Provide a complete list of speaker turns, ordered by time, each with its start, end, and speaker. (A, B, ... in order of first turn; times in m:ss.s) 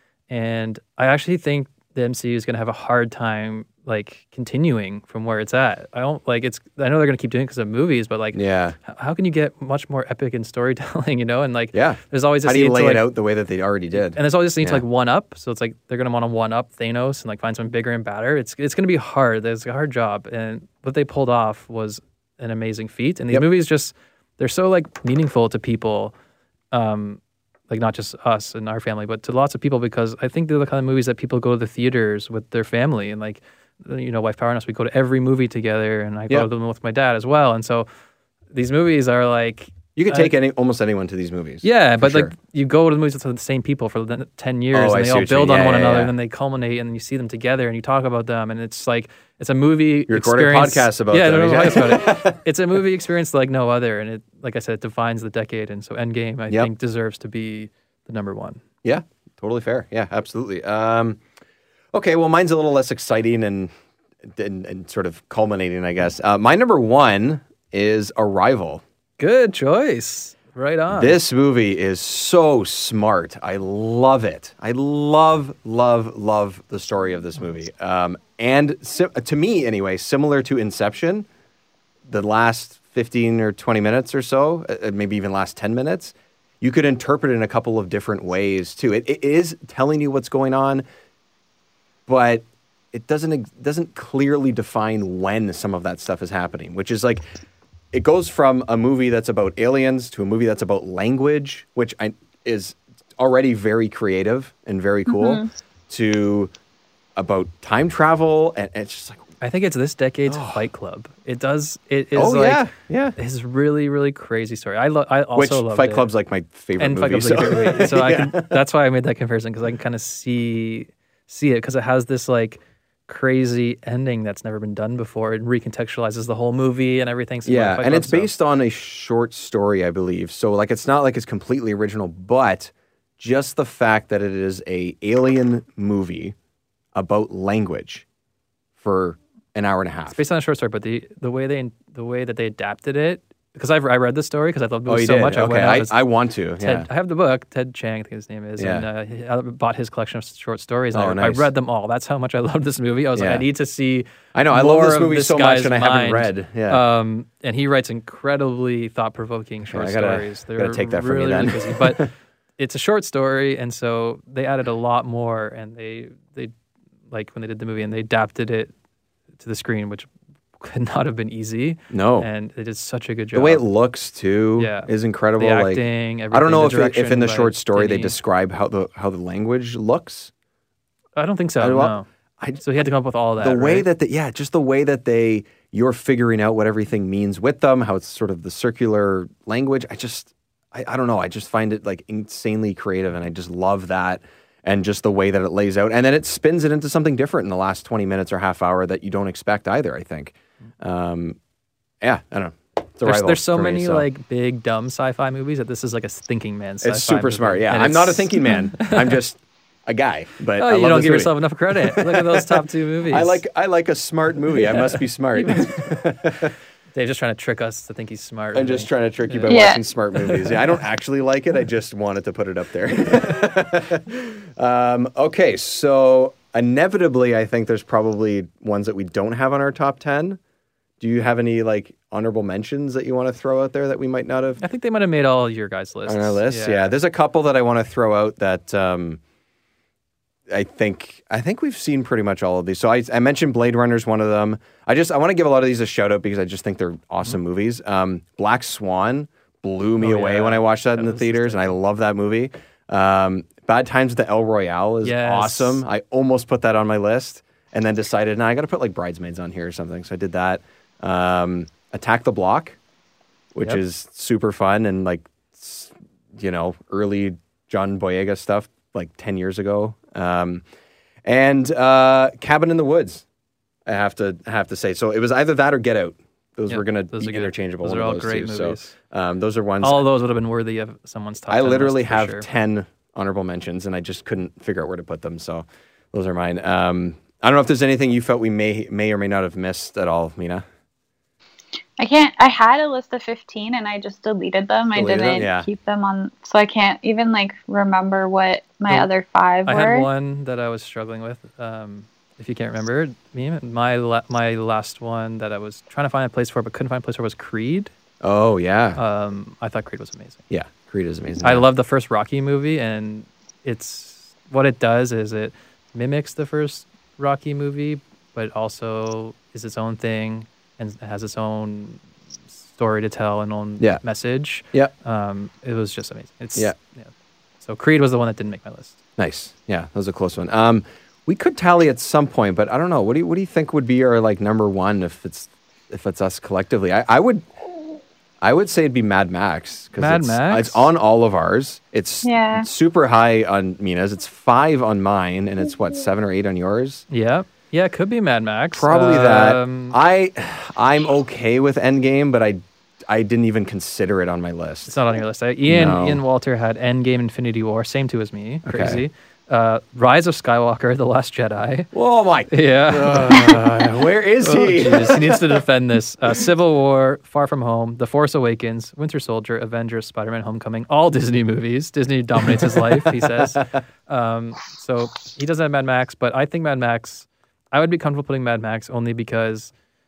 0:00.3-0:13.1 A
0:08.3-0:08.8 B
0:11.7-0:14.8 B
0:14.1-0:26.1 A
0:26.7-0:37.9 A
0:38.5-0:40.3 A
0:40.0-0:42.3 B
0:41.6-0:58.6 A
0:44.7-0:46.1 B
0:50.1-0:52.4 B
0:58.8-1:01.2 B
1:01.9-1:03.7 B
1:04.2-1:08.8 B
1:09.2-1:11.2 A
1:10.9-1:21.3 B
1:22.0-1:30.8 B
1:32.0-1:37.2 B
1:37.9-1:46.5 B
1:45.1-1:45.5 C
1:47.2-1:49.2 B
1:49.4-1:52.6 A
1:50.3-1:50.6 B
1:52.1-1:53.1 B
1:53.2-1:56.1 A
1:55.3-1:58.5 B
1:56.8-2:08.3 A
2:07.4-2:16.3 B
2:16.9-2:18.0 B
2:18.8-2:20.2 B
2:20.1-2:26.0 A
2:24.8-2:26.9 B
2:26.6-2:46.5 A
2:28.6-2:28.8 B
2:30.9-2:31.5 B
2:33.2-2:33.4 B
2:34.3-2:36.8 B
2:39.6-2:42.1 B
2:47.1-2:48.7 A
2:49.4-2:53.6 A
2:51.9-2:52.3 B
2:53.3-3:00.3 B
2:54.6-2:58.2 A
3:01.2-3:02.1 A
3:01.6-3:02.8 B
3:02.6-3:03.9 A
3:03.4-3:21.4 B
3:22.0-3:24.0 B
3:23.0-3:29.2 A
3:26.8-3:36.5 B
3:30.6-3:33.4 A
3:34.5-3:35.8 A
3:36.9-3:40.8 A
3:38.5-3:50.4 B
3:39.5-3:39.8 C
3:51.0-3:54.6 B
3:54.6-3:57.0 A
3:56.0-3:59.2 B
4:00.5-4:22.8 B
4:10.0-4:11.8 A
4:15.0-4:15.8 A
4:23.5-4:30.6 B
4:31.2-4:33.2 B
4:33.8-4:40.0 B
4:36.7-4:38.9 A
4:39.8-4:42.5 A
4:41.5-4:50.6 B
4:52.0-5:00.1 C
4:54.9-4:55.7 B
4:59.6-5:07.9 A
5:08.2-5:09.0 B
5:08.9-5:10.4 A
5:10.5-5:11.7 B
5:11.4-5:22.0 A
5:22.6-5:29.0 A
5:29.2-5:37.5 B
5:38.4-5:47.0 B
5:40.0-5:40.9 A
5:42.2-5:42.7 C
5:47.1-5:50.0 A
5:48.7-5:54.9 B
5:54.8-6:01.9 A
5:55.6-5:56.2 B
5:58.6-5:59.0 B
6:01.9-6:05.6 B
6:02.5-6:19.7 A
6:12.4-6:13.8 B